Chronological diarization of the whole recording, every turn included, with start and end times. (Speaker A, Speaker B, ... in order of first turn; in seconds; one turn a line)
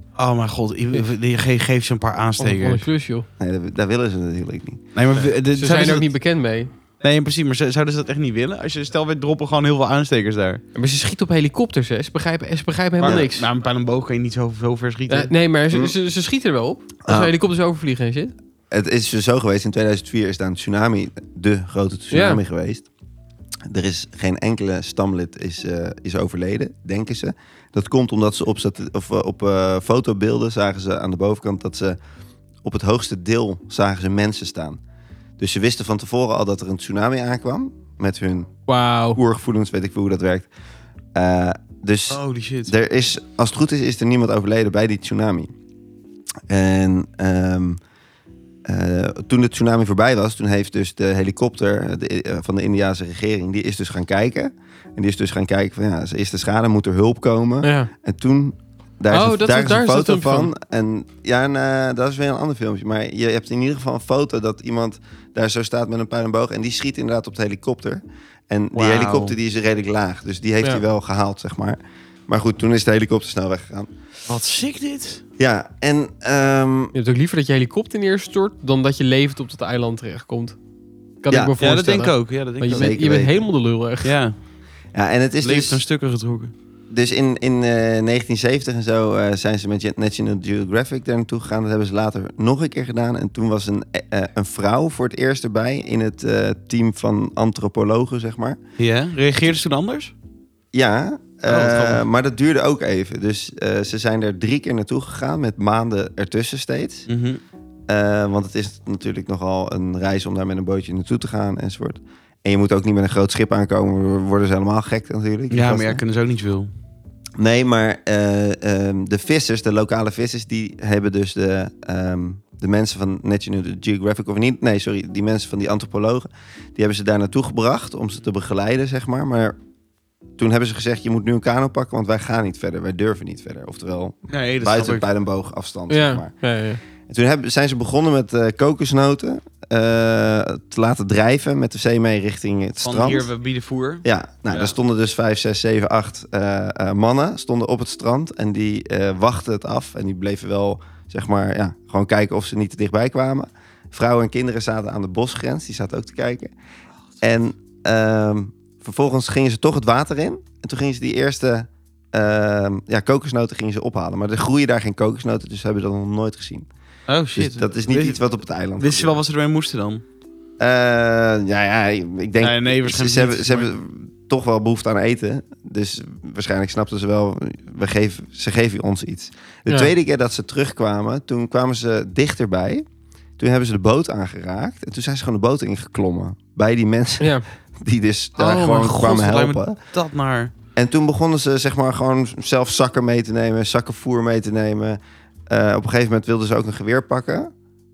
Speaker A: 0.2-2.9
Speaker B: 2.4-3.3
Speaker C: 3.4-4.8
Speaker A: 4.9-6.1
Speaker B: 5.5-6.7
Speaker A: 7.0-10.6
Speaker B: 10.7-13.5
Speaker A: 13.0-15.3
Speaker B: 15.1-18.3
Speaker C: 17.1-17.3
Speaker C: 18.7-22.9
Speaker B: 22.1-22.4
Speaker C: 23.6-32.0
Speaker C: 32.6-34.8
Speaker C: 35.4-38.5
Speaker B: 38.7-39.2
Speaker C: 39.1-40.5
Speaker C: 41.1-45.5
Speaker A: 42.1-42.7
Speaker C: 46.5-47.8
Speaker C: 48.6-73.9
Speaker B: 57.6-57.9
Speaker B: 59.1-60.5
Speaker A: 68.7-69.3
Speaker A: 74.3-75.2
Speaker C: 75.4-76.9
Speaker B: 76.9-80.6
Speaker B: 81.2-84.2
Speaker C: 81.3-81.5
Speaker A: 81.6-83.0
Speaker C: 82.7-83.5
Speaker A: 84.0-84.3
Speaker C: 84.9-85.8
Speaker A: 85.4-86.5
Speaker C: 86.9-98.6
Speaker A: 98.8-100.1
Speaker C: 100.7-107.1
Speaker A: 101.5-102.0
Speaker A: 107.1-107.4
Speaker C: 107.9-116.0
Speaker A: 115.5-116.7
Speaker C: 117.4-129.6
Speaker C: 130.4-136.3
Speaker A: 134.3-135.1
Speaker B: 135.9-136.8
Speaker C: 137.1-143.3
Speaker A: 142.8-144.7
Speaker C: 144.0-156.5
Speaker C: 157.2-166.7
Speaker A: 167.1-168.2
Speaker C: 167.3-169.2
Speaker A: 168.8-170.0
Speaker C: 170.6-182.8
Speaker A: 172.4-173.7
Speaker C: 183.4-189.8
Speaker B: 187.2-187.4
Speaker A: 188.3-190.5
Speaker C: 190.7-197.5